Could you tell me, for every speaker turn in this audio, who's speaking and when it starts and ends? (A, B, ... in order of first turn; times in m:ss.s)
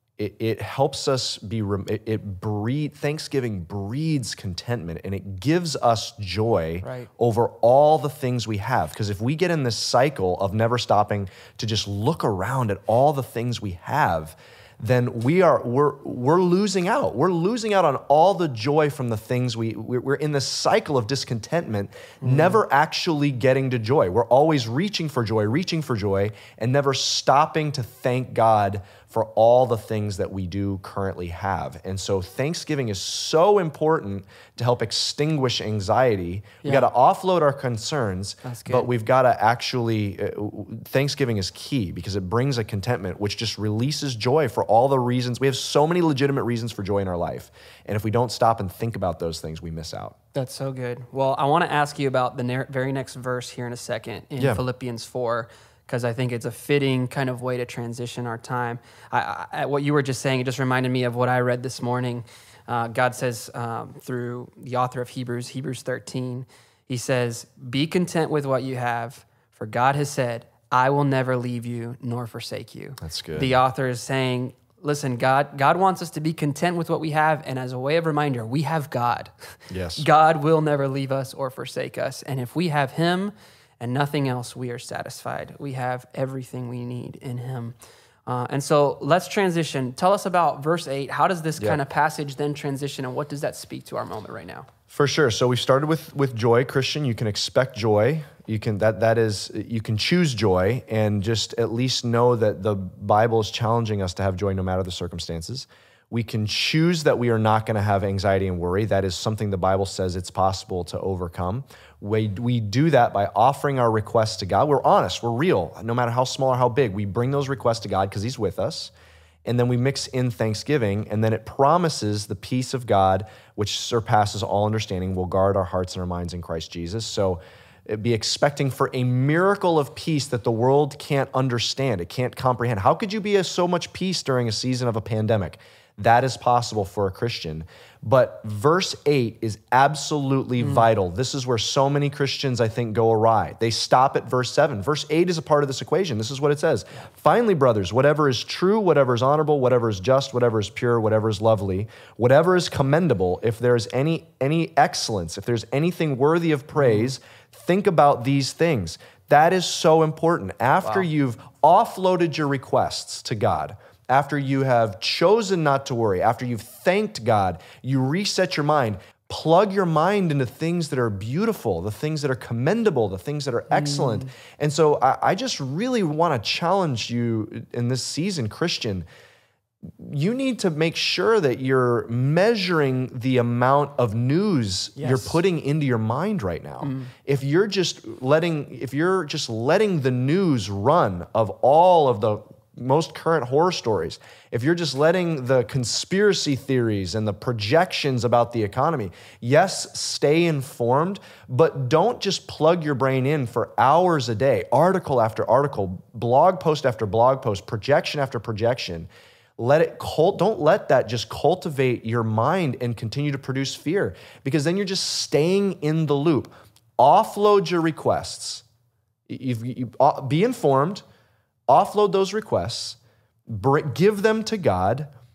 0:00.2-0:50.1 A
0:06.8-0:07.1 B
0:22.2-0:22.6 B
0:36.6-0:36.9 B
0:38.4-0:38.9 B
0:50.3-1:27.8 B
1:13.0-1:13.6 A
1:19.7-1:20.1 A
1:28.3-1:34.7 B
1:34.9-1:58.9 A
1:59.4-2:59.1 A
2:20.6-2:20.9 B
2:36.8-2:37.1 B
2:53.7-2:54.3 B
2:59.9-3:38.6 A
3:05.0-3:05.4 B
3:06.8-3:07.1 B
3:39.3-3:41.0 A
3:41.7-3:45.1 A